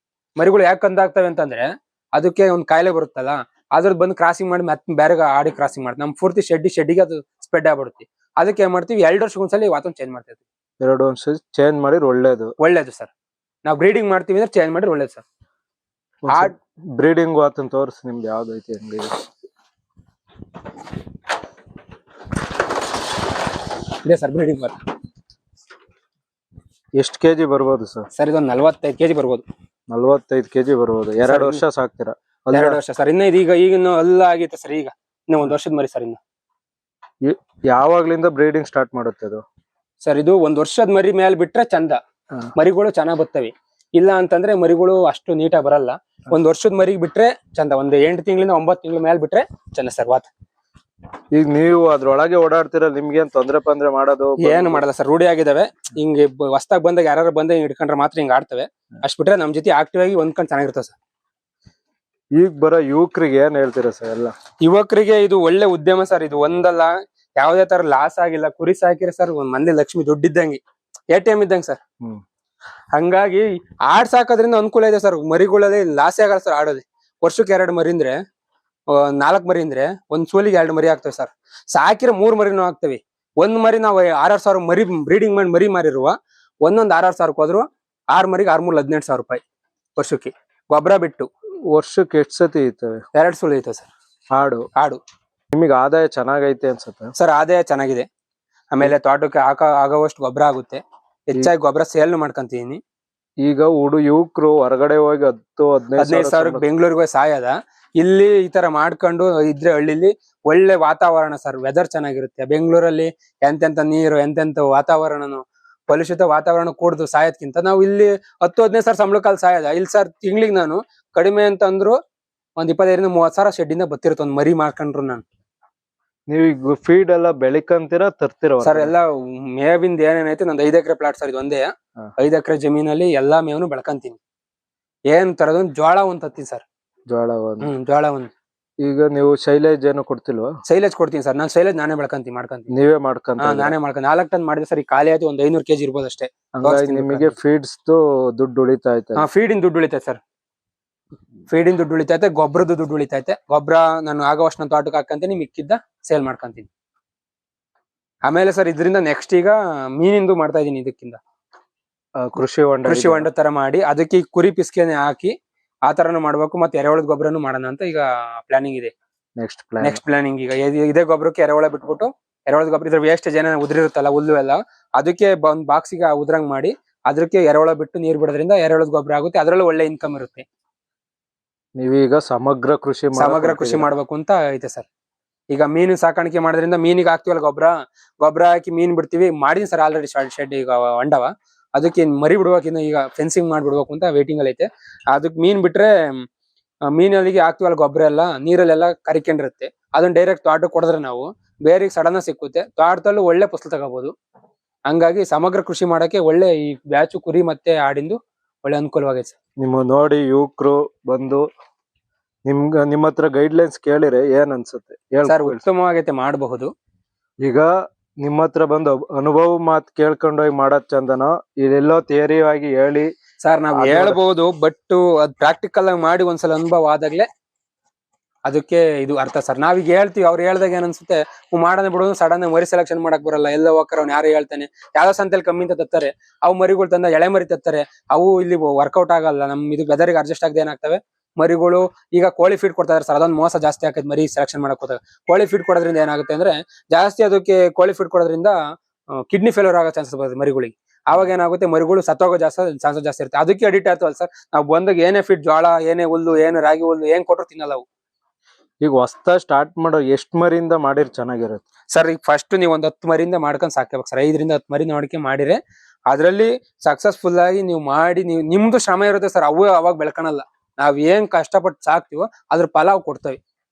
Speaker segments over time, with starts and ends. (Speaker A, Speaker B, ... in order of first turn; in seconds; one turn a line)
Speaker A: 0.4-10.4
Speaker B: 10.8-12.5
Speaker A: 12.6-13.1
Speaker A: 13.7-15.2
Speaker B: 16.2-19.2
Speaker A: 24.0-24.8
Speaker B: 27.0-28.1
Speaker A: 28.1-29.5
Speaker B: 29.9-32.8
Speaker A: 31.2-31.6
Speaker A: 32.5-36.2
Speaker B: 37.2-39.4
Speaker A: 40.0-42.0
Speaker A: 42.6-50.3
Speaker B: 51.3-54.8
Speaker A: 54.4-61.0
Speaker B: 62.4-64.3
Speaker A: 64.6-71.8
Speaker A: 72.9-78.2
Speaker A: 78.9-89.4
Speaker A: 90.0-91.3
Speaker B: 91.7-93.0
Speaker A: 93.1-93.9
Speaker B: 94.3-94.7
Speaker B: 95.5-97.1
Speaker A: 97.2-98.1
Speaker A: 98.7-102.8
Speaker B: 103.4-106.7
Speaker A: 106.0-122.0
Speaker A: 122.6-125.2
Speaker B: 126.3-128.9
Speaker A: 128.6-134.2
Speaker A: 135.1-136.6
Speaker B: 137.1-137.7
Speaker A: 137.6-138.3
Speaker B: 138.8-140.5
Speaker A: 140.7-142.7
Speaker B: 142.7-143.7
Speaker A: 143.4-147.4
Speaker B: 146.6-149.3
Speaker A: 149.2-150.2
Speaker A: 151.5-156.7
Speaker A: 158.3-161.2
Speaker B: 162.2-163.3
Speaker A: 162.9-165.3
Speaker A: 165.9-168.9
Speaker B: 169.4-170.0
Speaker A: 169.8-180.4
Speaker B: 181.8-183.9
Speaker A: 183.2-184.9
Speaker A: 185.5-196.2
Speaker A: 196.9-204.1
Speaker A: 204.9-209.4
Speaker B: 209.6-211.4
Speaker B: 212.5-215.7
Speaker A: 215.2-216.7
Speaker B: 217.4-217.7
Speaker B: 218.2-223.1
Speaker A: 223.4-227.3
Speaker B: 223.8-224.2
Speaker A: 228.5-248.6
Speaker A: 249.2-257.9
Speaker B: 258.8-261.6
Speaker A: 261.9-273.4